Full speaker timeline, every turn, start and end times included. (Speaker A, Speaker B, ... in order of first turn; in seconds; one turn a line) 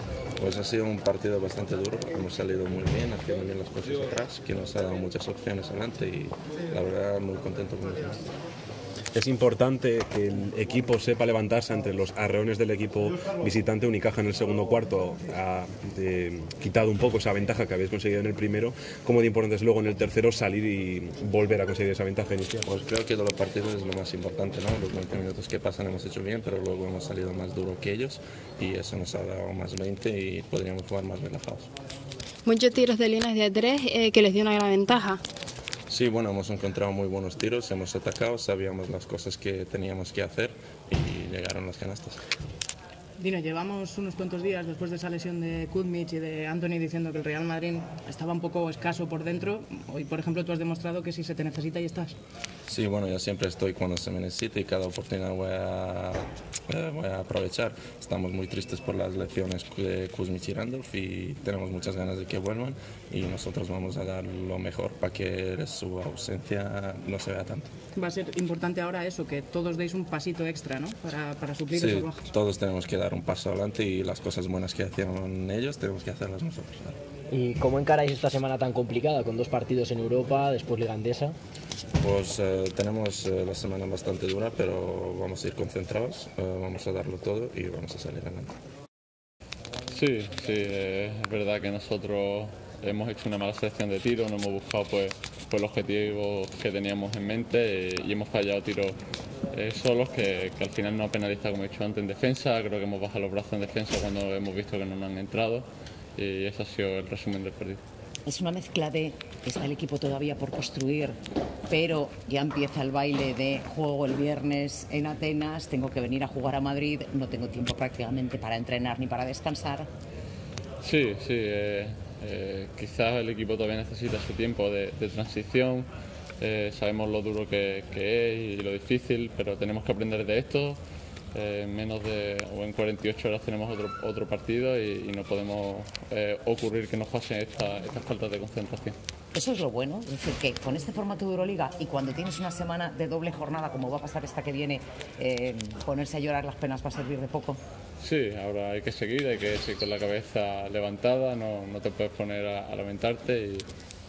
Speaker A: 0.4-8.3
Speaker B: 9.1-22.6
Speaker A: 22.7-31.7
Speaker C: 32.5-35.2
Speaker A: 35.9-42.2
Speaker D: 43.2-52.1
Speaker A: 52.7-67.7
Speaker D: 68.0-72.2
Speaker A: 71.7-77.0
Speaker E: 77.3-81.3
Speaker A: 82.0-88.5
Speaker F: 89.9-99.0
Speaker F: 99.5-107.8
Speaker G: 108.2-111.2
Speaker G: 111.7-119.9
Speaker F: 120.8-125.9
Speaker F: 126.4-130.8
Speaker F: 131.3-138.9
Speaker G: 139.3-147.6
Speaker F: 148.0-153.7